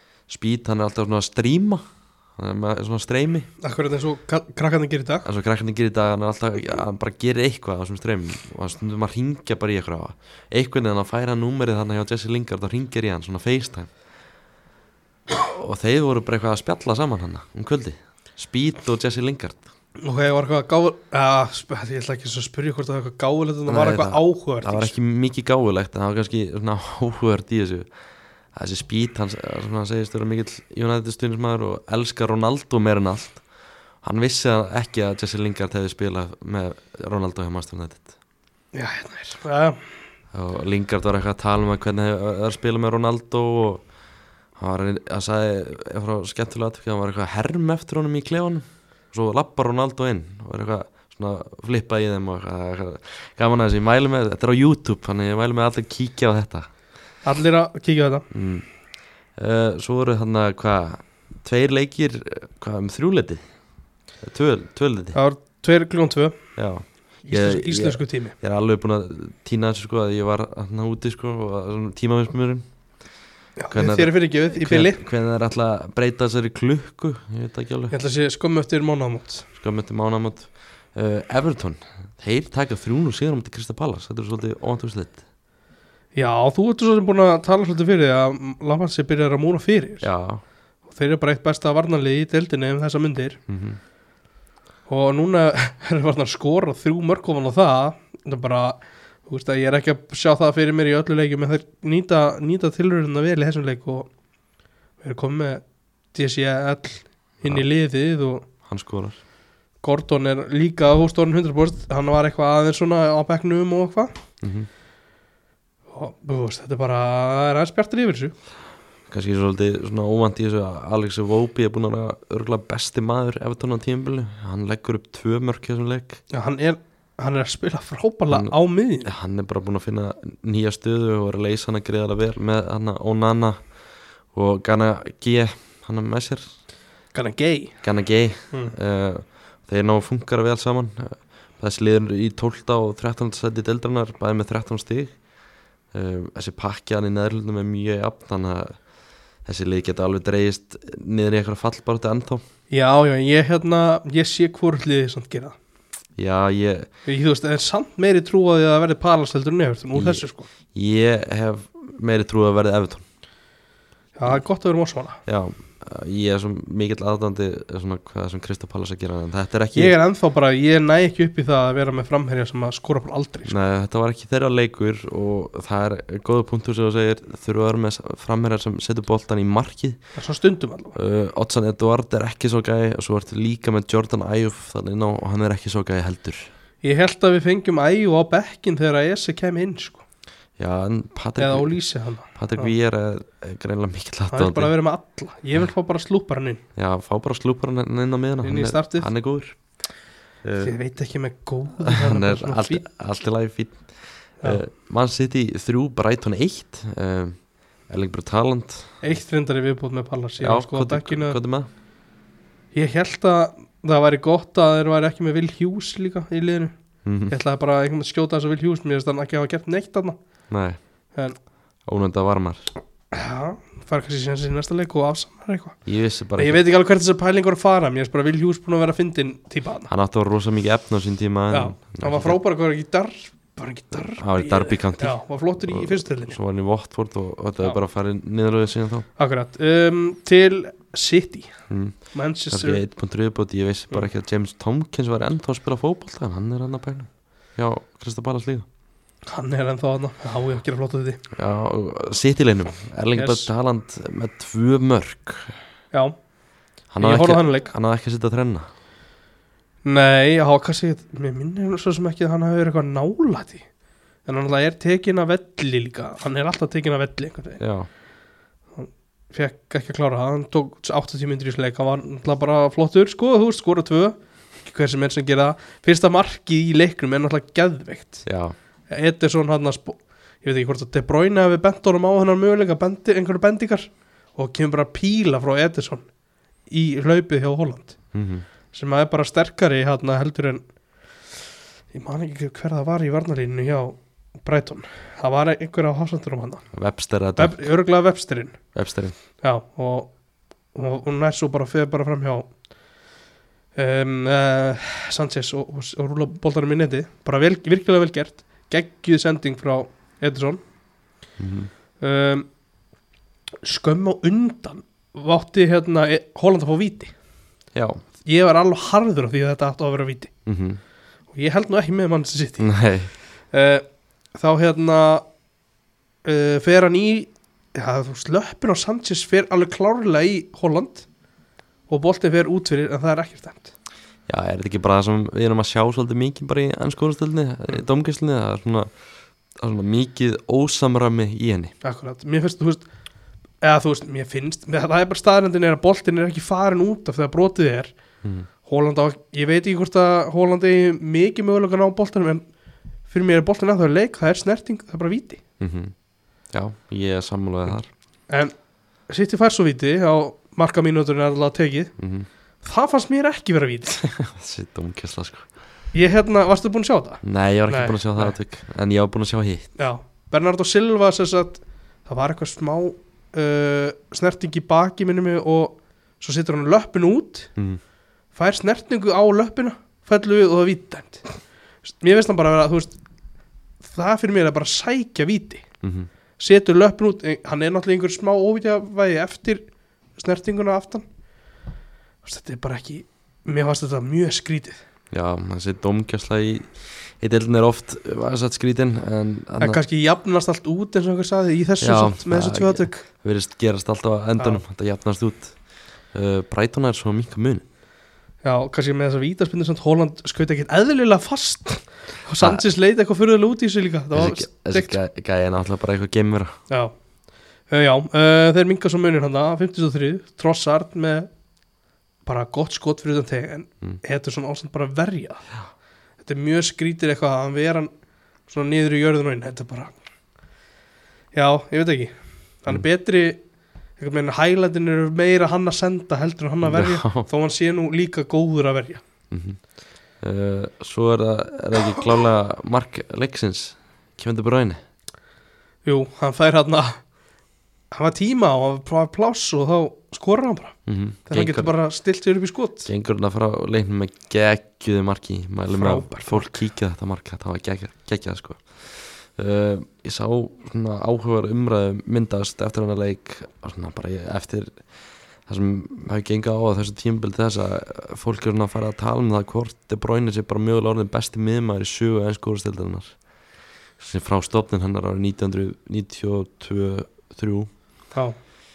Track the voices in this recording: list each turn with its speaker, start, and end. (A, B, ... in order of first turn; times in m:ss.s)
0:00.3-0:01.8 A
0:02.4-0:03.5 A
0:03.6-0:05.3 B
0:05.2-0:13.9 A
0:15.4-0:19.6 A
0:20.0-0:24.9 B
0:23.7-0:27.9 A
0:28.5-0:33.4 A
0:34.0-0:38.1 A
0:38.7-0:39.8 B
0:40.3-0:43.8 A
0:44.6-0:56.7 A
0:57.2-0:58.3 B
0:58.3-0:58.7 A
0:59.4-1:03.4 A
1:04.2-1:05.2 A
1:05.1-1:06.4 B
1:06.6-1:12.7 A
1:07.3-1:08.4 B
1:13.6-1:15.0 B
1:13.7-1:18.0 A
1:17.9-1:19.5 B
1:19.6-1:25.2 A
1:26.2-1:30.1 B
1:30.0-1:30.4 A
1:30.9-1:33.4 B
1:33.5-1:33.8 A
1:34.9-1:44.1 B
1:45.0-1:45.6 B
1:46.1-1:48.5 B
1:48.6-1:49.2 A
1:49.8-1:54.2 B
1:54.4-1:54.7 A
1:55.9-1:58.4 B
1:59.1-2:06.2 A
2:06.3-2:09.1 B
2:08.3-2:13.7 A
2:14.3-2:16.5 A
2:17.1-2:17.8 B
2:17.8-2:25.2 A
2:25.9-2:28.8 A
2:29.4-2:32.4 A
2:32.7-2:35.6 B
2:36.2-2:36.9 A
2:37.1-2:40.5 B
2:40.0-2:43.0 A
2:44.2-2:45.2 B
2:45.3-2:50.0 A
2:49.7-2:53.5 B
2:53.5-3:00.0 A
3:00.2-3:01.0 B
3:01.0-3:06.5 A
3:06.8-3:10.0 B
3:10.6-3:11.8 A
3:11.4-3:12.7 B
3:12.3-3:14.7 A
3:14.3-3:16.6 B
3:16.8-3:19.6 A
3:18.4-3:19.1 B
3:20.4-3:20.7 A
3:20.6-3:22.8 B
3:21.8-3:27.4 A
3:27.9-3:29.0 A
3:29.0-3:31.4 B
3:30.4-3:31.7 A
3:32.7-3:36.7 B
3:37.0-3:37.4 A
3:37.3-3:40.2 B
3:40.5-3:40.8 A
3:41.8-3:42.7 A
3:43.1-3:45.8 B
3:45.8-3:46.6 A
3:46.4-3:49.9 B
3:49.9-3:52.4 A
3:51.5-3:56.4 B
3:54.2-3:59.1 A
3:59.2-4:01.5 B
4:01.7-4:08.7 A
4:02.1-4:02.8 B
4:09.3-4:11.2 B
4:11.3-4:15.6 A
4:13.2-4:13.5 B
4:16.9-4:18.7 A
4:17.0-4:17.7 B
4:19.8-4:23.7 B
4:24.3-4:27.6 B
4:27.6-4:27.9 A
4:28.8-4:38.2 B
4:38.2-4:38.6 A
4:38.9-4:46.1 B
4:46.7-4:48.0 B
4:48.1-4:48.5 A
4:48.7-4:50.6 B
4:51.9-4:56.7 B
4:56.7-4:57.7 A
4:57.4-4:58.6 B
4:58.7-4:59.2 A
4:59.4-5:00.1 B
5:00.7-5:02.5 B
5:03.8-5:10.6 B
5:11.4-5:11.7 A
5:12.0-5:12.5 B
5:13.6-5:17.1 B
5:17.7-5:18.0 A
5:18.2-5:20.3 B
5:20.5-5:20.8 A
5:21.3-5:22.7 B
5:22.6-5:23.1 A
5:23.5-5:25.2 B
5:26.2-5:31.1 B
5:31.9-5:33.7 B
5:34.3-5:38.9 A
5:39.6-5:41.7 A
5:41.8-5:42.8 B
5:43.6-5:47.9 B
5:48.2-5:48.5 A
5:48.6-5:52.5 B
5:53.1-5:55.4 B
5:55.6-5:55.9 A
5:56.5-5:57.9 A
5:59.1-6:01.9 B
6:02.0-6:02.3 A
6:02.6-6:04.0 B
6:04.0-6:05.5 A
6:05.9-6:08.4 B
6:07.2-6:09.7 A
6:09.8-6:17.5 B
6:18.4-6:21.3 B
6:21.8-6:23.0 B
6:23.8-6:25.6 B
6:25.8-6:26.1 A
6:26.4-6:31.0 B
6:32.2-6:34.8 B
6:35.1-6:39.8 A
6:39.6-6:43.1 B
6:41.8-6:45.6 A
6:46.1-6:47.6 A
6:48.4-6:55.0 B
6:54.1-6:56.6 A
6:56.7-6:56.9 B
6:57.7-7:01.3 B
7:02.2-7:05.4 B
7:06.2-7:07.9 B
7:08.5-7:10.0 B
7:11.3-7:12.1 B
7:12.6-7:13.4 B
7:14.0-7:19.0 B
7:16.6-7:17.3 A
7:19.3-7:19.6 A
7:20.2-7:24.8 A
7:25.8-7:27.0 B
7:27.9-7:30.8 B
7:30.9-7:31.7 A
7:31.3-7:32.9 B
7:32.9-7:44.8 A
7:35.7-7:36.6 B
7:45.5-7:53.2 A
7:54.0-7:57.7 A